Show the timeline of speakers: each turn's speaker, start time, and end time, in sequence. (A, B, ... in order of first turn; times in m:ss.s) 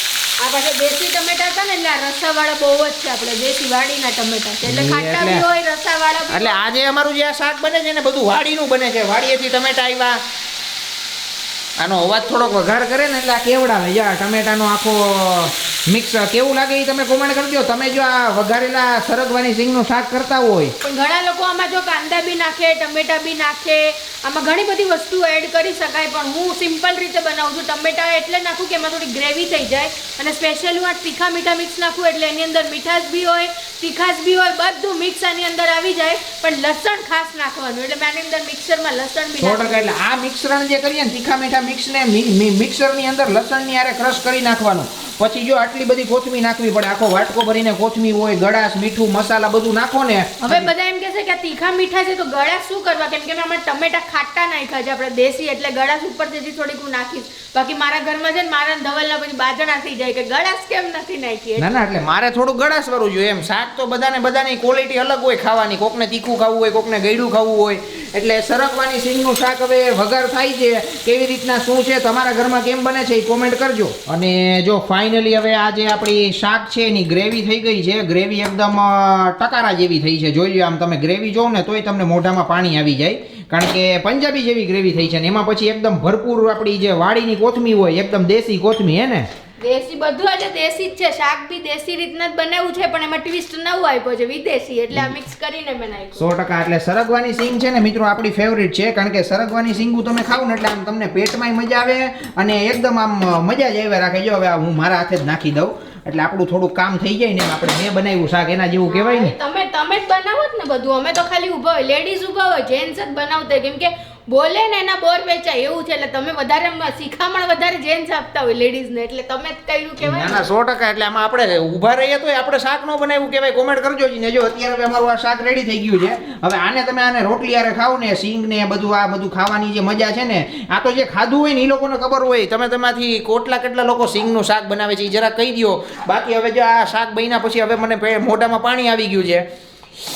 0:00.4-0:06.6 A
0:04.6-0:05.4 B
0:06.3-0:10.2 B
0:11.8-0:20.7 B
0:20.8-0:40.0 A
0:39.4-0:50.7 B
0:50.4-1:01.9 A
1:01.6-1:29.3 B
1:29.6-1:36.3 A
1:36.2-1:49.3 B
1:48.9-2:00.4 A
2:00.0-2:19.4 B